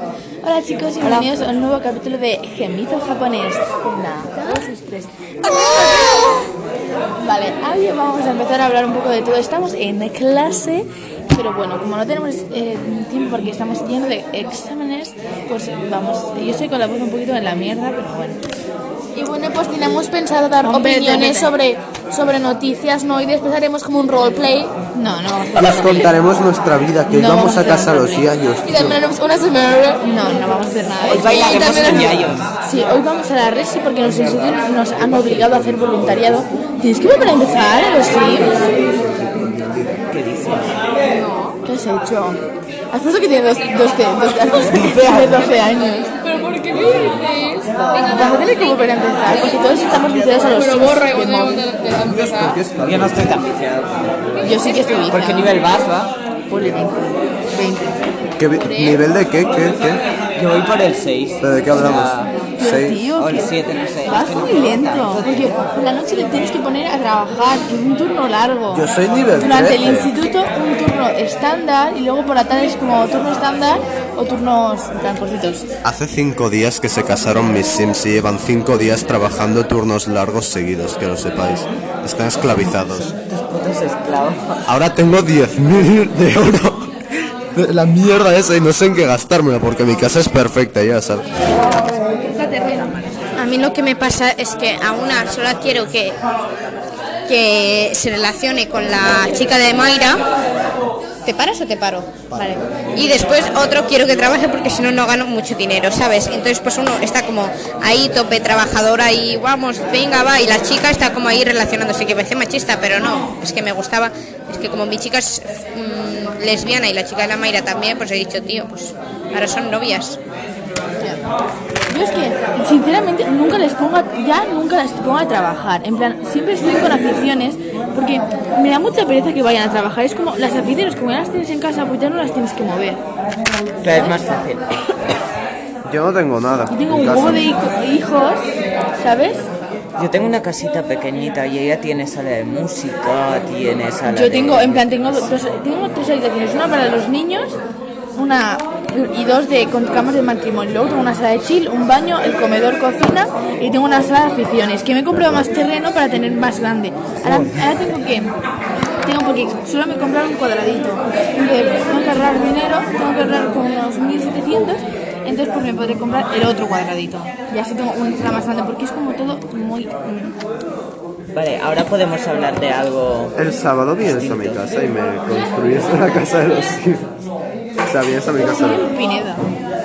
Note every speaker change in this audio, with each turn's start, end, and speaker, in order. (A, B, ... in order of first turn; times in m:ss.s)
0:00.4-0:05.1 A
0:01.0-0:01.3 B
0:06.0-0:06.3 A
0:07.2-0:18.4 A
0:19.2-0:24.7 C
0:20.6-0:21.6 A
0:24.9-0:26.1 A
0:25.6-0:29.0 D
0:27.1-0:28.3 A
0:28.7-0:30.0 C
0:30.0-0:32.0 A
0:31.1-0:32.5 B
0:31.2-0:32.2 C
0:32.6-0:38.7 A
0:38.2-0:40.0 D
0:40.1-0:40.7 B
0:41.1-0:41.6 C
0:41.6-0:42.4 A
0:42.9-0:46.1 A
0:44.7-0:45.5 B
0:46.2-0:49.8 C
0:47.9-0:51.6 A
0:50.4-0:52.6 C
0:52.0-0:53.3 D
0:52.8-0:54.2 B
0:54.4-0:55.5 A
0:54.5-0:54.9 C
0:55.1-0:56.1 B
0:56.5-0:58.0 A
0:58.4-1:00.0 D
1:00.4-1:02.3 B
1:01.4-1:03.0 D
1:02.6-1:03.5 A
1:03.2-1:05.2 B
1:04.0-1:08.9 A
1:08.7-1:10.1 D
1:09.4-1:15.7 A
1:15.8-1:23.1 D
1:22.4-1:24.7 B
1:24.6-1:26.9 D
1:27.5-1:31.3 D
1:32.2-1:33.0 C
1:33.4-1:36.2 E
1:37.3-1:40.2 E
1:41.2-2:00.2 E
2:01.9-2:13.0 A
2:13.8-2:14.7 B
2:13.9-2:14.2 A
2:15.8-2:17.5 D
2:16.7-2:18.4 A
2:19.0-2:19.4 A
2:20.0-2:25.3 B
2:24.1-2:27.6 A
2:28.1-2:38.3 A
2:37.3-2:37.5 B
2:39.0-2:50.4 A
2:51.3-2:53.4 B
2:53.4-2:57.1 D
2:54.0-2:54.7 B
2:57.8-2:58.9 D
2:58.4-2:59.4 A